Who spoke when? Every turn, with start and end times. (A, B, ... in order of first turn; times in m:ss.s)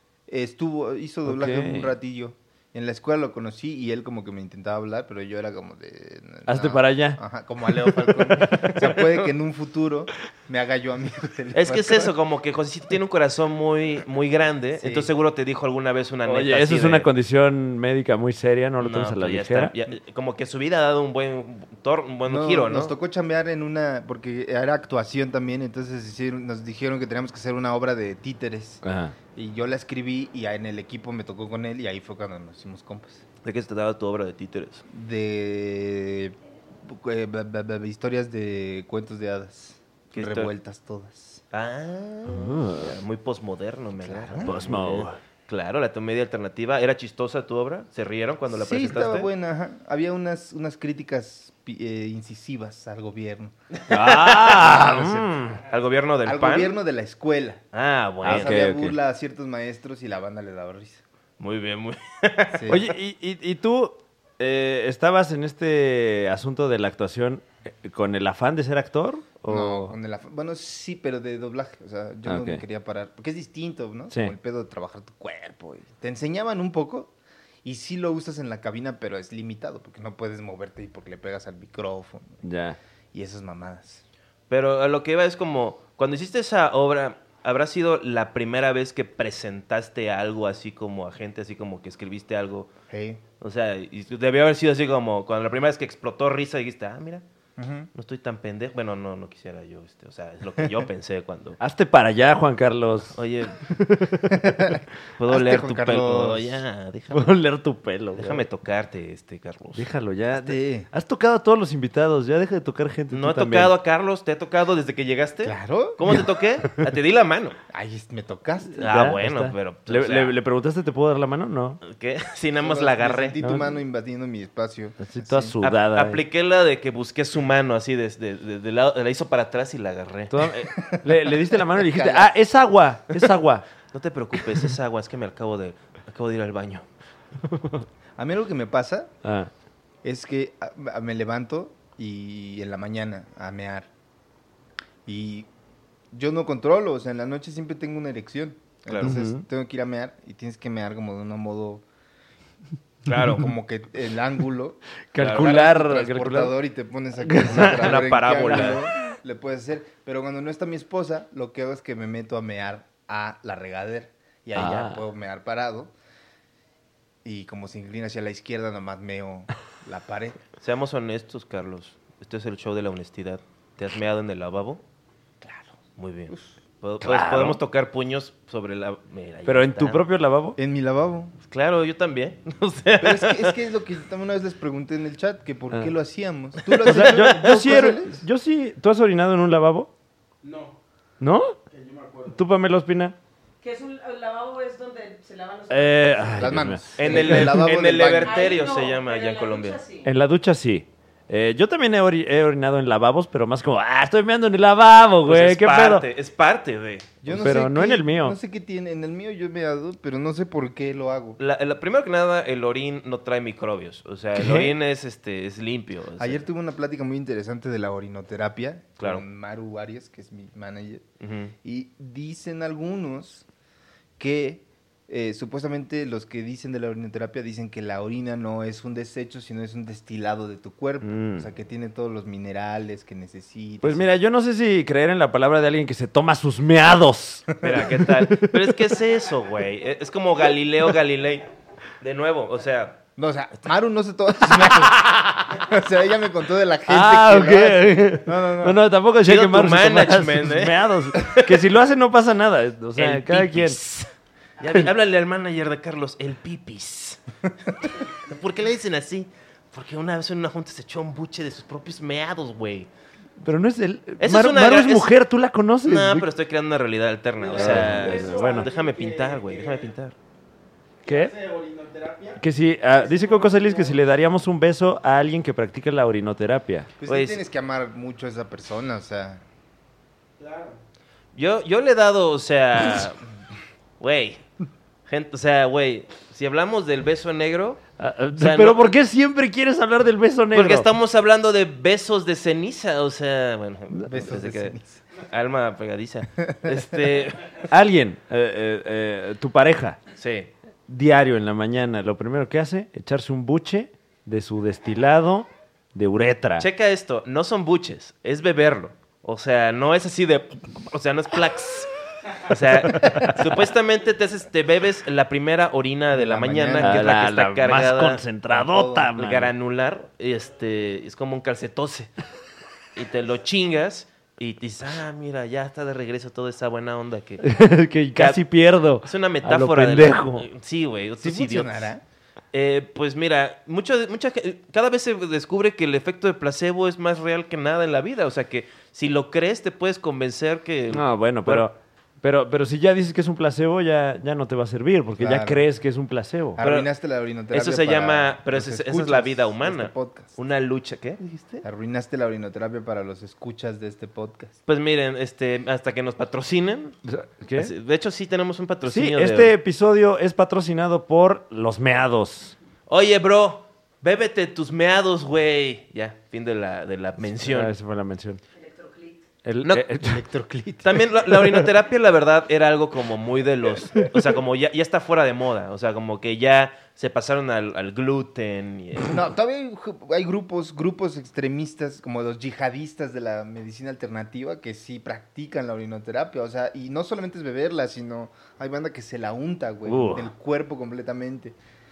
0:00.3-0:12.1 A
0:01.3-0:02.0 B
0:06.5-0:07.2 B
0:08.3-0:08.9 B
0:11.5-0:17.1 C
0:14.8-0:15.1 A
0:16.3-0:19.7 B
0:18.8-0:22.9 C
0:22.3-0:28.8 A
0:28.8-0:29.2 B
0:29.4-0:33.2 A
0:33.4-0:34.8 C
0:34.9-0:41.4 A
0:40.1-0:40.5 C
0:41.5-0:49.3 C
0:42.3-0:42.9 B
0:44.0-0:44.6 A
0:44.4-0:45.2 B
0:48.5-0:53.6 A
0:53.8-0:54.6 C
0:53.9-0:55.6 B
0:54.5-0:55.3 A
0:55.7-0:56.7 C
0:56.2-0:57.6 A
0:57.7-0:58.6 C
0:58.2-1:01.0 A
0:58.2-0:59.0 B
1:01.4-1:02.7 C
1:02.6-1:02.8 A
1:02.7-1:09.9 B
1:09.5-1:17.1 A
1:12.3-1:12.6 B
1:17.6-1:22.4 A
1:22.4-1:22.8 B
1:23.1-1:24.0 A
1:24.5-1:32.7 C
1:32.9-1:33.2 A
1:33.4-1:37.2 C
1:37.6-1:37.9 A
1:37.9-1:41.6 C
1:41.6-1:44.7 B
1:43.2-1:43.6 C
1:44.3-1:46.6 A
1:45.2-1:47.3 C
1:47.1-1:48.4 B
1:48.2-1:49.9 C
1:49.8-1:53.8 B
1:50.3-1:50.9 A
1:53.1-1:57.6 C
1:55.4-1:56.2 A
1:57.7-1:58.9 A
1:58.8-2:01.8 B
1:58.8-2:00.4 C
2:01.8-2:03.4 C
2:02.6-2:05.5 A
2:03.4-2:03.7 B
2:05.0-2:06.2 B
2:05.6-2:10.3 C
2:10.3-2:13.6 B
2:10.8-2:12.3 A
2:13.9-2:16.9 C
2:17.5-2:17.8 B
2:18.2-2:19.1 A
2:19.2-2:19.5 B
2:20.0-2:23.9 A
2:25.1-2:25.5 A
2:26.1-2:31.8 A
2:28.9-2:29.1 C
2:29.0-2:29.4 B
2:33.1-2:33.5 C
2:33.3-2:45.9 A
2:35.1-2:36.6 B
2:35.2-2:35.5 C
2:37.2-2:38.8 B
2:37.7-2:38.8 C
2:44.6-2:45.0 B
2:47.2-2:50.4 A
2:50.6-2:54.8 C
2:55.4-2:55.8 A
2:56.0-3:00.0 C
2:56.3-2:56.6 A
2:57.0-2:57.6 B
2:59.5-3:00.6 B
3:00.6-3:01.3 A
3:01.5-3:03.6 C
3:03.0-3:08.2 A
3:06.7-3:07.4 C
3:06.8-3:09.9 B
3:10.4-3:10.8 D
3:11.2-3:11.6 B
3:11.7-3:12.4 D
3:12.3-3:13.2 B
3:13.6-3:16.6 E
3:15.7-3:17.6 B
3:16.4-3:18.6 A
3:17.0-3:19.8 C
3:18.2-3:20.1 E
3:20.0-3:26.0 B
3:25.3-3:27.1 C
3:27.2-3:31.4 A
3:27.3-3:28.4 B
3:31.4-3:36.4 C
3:34.4-3:34.7 B
3:36.2-3:41.0 A
3:41.2-3:41.5 C
3:41.6-3:43.4 A
3:44.2-3:54.1 A
3:51.0-3:51.5 B
3:53.8-3:58.7 B
3:57.6-4:01.5 C
4:02.0-4:03.0 C
4:03.2-4:08.8 A
4:05.0-4:05.4 B
4:06.9-4:13.8 B
4:09.3-4:11.6 C
4:13.0-4:14.1 C
4:14.6-4:17.2 C
4:18.1-4:22.9 C
4:23.4-4:26.3 B
4:24.2-4:25.1 C
4:25.8-4:30.2 C
4:27.4-4:29.9 D
4:27.6-4:28.7 B
4:31.1-4:31.3 B
4:31.1-4:32.4 D
4:32.4-4:36.9 B
4:32.9-4:34.0 D
4:37.0-4:39.4 A
4:37.1-4:37.4 C
4:40.4-4:40.8 D
4:41.4-4:43.2 C
4:44.0-4:44.4 C
4:45.1-4:47.8 C
4:48.0-4:50.9 B
4:48.4-4:48.9 C
4:50.5-4:57.6 C
4:54.1-4:55.0 A
4:56.4-4:56.9 A
4:57.7-5:00.0 B
5:00.2-5:00.5 C
5:00.9-5:06.7 B
5:06.6-5:18.2 C
5:16.1-5:17.0 A
5:16.8-5:19.5 B
5:18.5-5:19.1 A
5:19.2-5:22.1 C
5:23.0-5:27.4 C
5:27.4-5:30.5 B
5:28.2-5:28.4 C
5:29.0-5:31.9 C
5:31.2-5:32.0 A
5:32.5-5:41.7 C
5:40.9-5:46.6 B
5:45.2-5:45.6 A
5:46.6-5:50.4 A
5:46.6-5:46.9 C
5:47.5-5:51.6 C
5:51.6-5:54.6 A
5:54.7-5:57.0 C
5:57.0-5:57.7 B
5:57.6-5:59.5 C
5:58.9-6:02.6 B
6:02.9-6:07.7 C
6:07.4-6:08.4 B
6:08.6-6:09.2 E
6:09.4-6:10.2 B
6:10.0-6:11.0 A
6:10.8-6:19.2 C
6:19.1-6:31.6 A
6:29.9-6:30.3 B